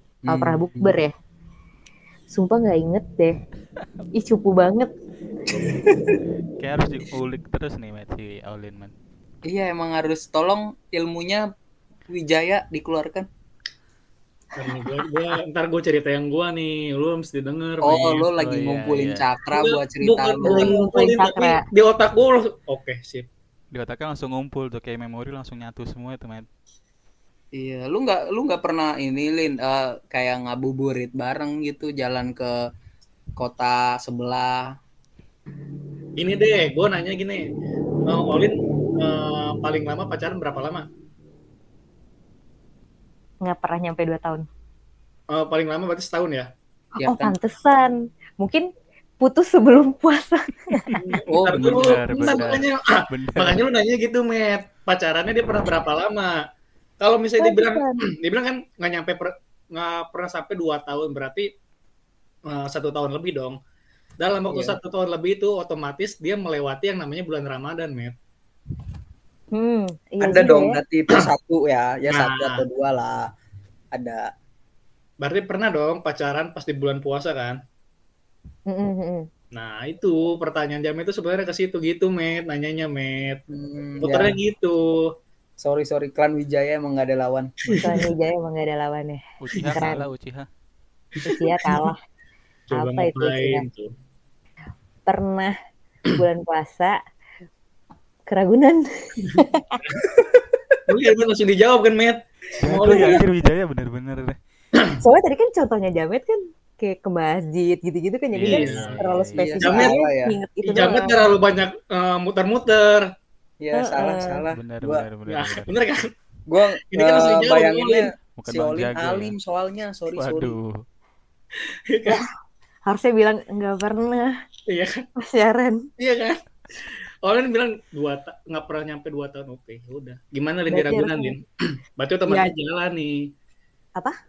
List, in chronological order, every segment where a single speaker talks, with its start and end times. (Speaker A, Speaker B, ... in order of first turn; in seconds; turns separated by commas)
Speaker A: 0.2-1.0, Speaker B: 0.3-1.1, Speaker B: 2.3-3.4, Speaker B: 4.1-4.9, Speaker A: 5.5-6.2, Speaker C: 6.6-8.9, Speaker A: 9.4-11.4, Speaker A: 12.1-13.3, Speaker D: 14.6-18.3, Speaker A: 17.8-20.7, Speaker C: 18.4-19.2, Speaker D: 19.5-23.3, Speaker B: 20.4-21.6, Speaker C: 23.7-26.5, Speaker A: 27.5-32.5, Speaker A: 33.4-34.6, Speaker D: 36.2-37.5, Speaker D: 38.0-40.9, Speaker B: 43.4-44.4, Speaker D: 45.3-46.5, Speaker A: 47.0-47.4, Speaker B: 47.0-48.7, Speaker B: 49.2-50.9, Speaker D: 51.0-56.3, Speaker A: 51.3-52.6, Speaker C: 51.5-53.6, Speaker D: 57.0-61.5, Speaker B: 57.4-58.0, Speaker D: 62.5-63.6, Speaker D: 64.2-68.1, Speaker A: 64.5-64.8, Speaker B: 69.5-70.8, Speaker A: 70.2-73.2, Speaker D: 72.1-72.6, Speaker A: 73.9-74.2, Speaker D: 75.2-77.6, Speaker B: 78.7-79.2, Speaker D: 79.5-83.4, Speaker A: 83.5-84.4, Speaker D: 84.0-85.0, Speaker A: 85.6-87.6, Speaker D: 87.7-88.0, Speaker B: 87.8-89.2, Speaker C: 89.4-90.5, Speaker B: 89.7-90.0, Speaker B: 91.2-92.0, Speaker D: 92.7-93.9, Speaker B: 92.7-93.6, Speaker B: 95.0-95.5, Speaker B: 96.1-97.0, Speaker B: 98.3-99.8, Speaker A: 100.2-100.5, Speaker D: 100.9-103.2, Speaker C: 102.6-104.4, Speaker B: 105.0-111.2, Speaker C: 108.3-109.5, Speaker D: 108.5-109.0, Speaker A: 109.4-110.4, Speaker D: 109.6-110.0, Speaker D: 110.6-113.1, Speaker A: 113.6-115.0, Speaker B: 113.7-114.4, Speaker C: 114.5-115.8, Speaker D: 115.3-116.1, Speaker A: 116.5-120.6, Speaker D: 116.9-118.0, Speaker C: 118.4-119.3, Speaker C: 120.2-120.8, Speaker D: 121.9-122.2, Speaker B: 122.8-124.3, Speaker B: 125.2-125.8, Speaker D: 126.0-131.4, Speaker B: 130.7-131.3, Speaker D: 132.0-133.3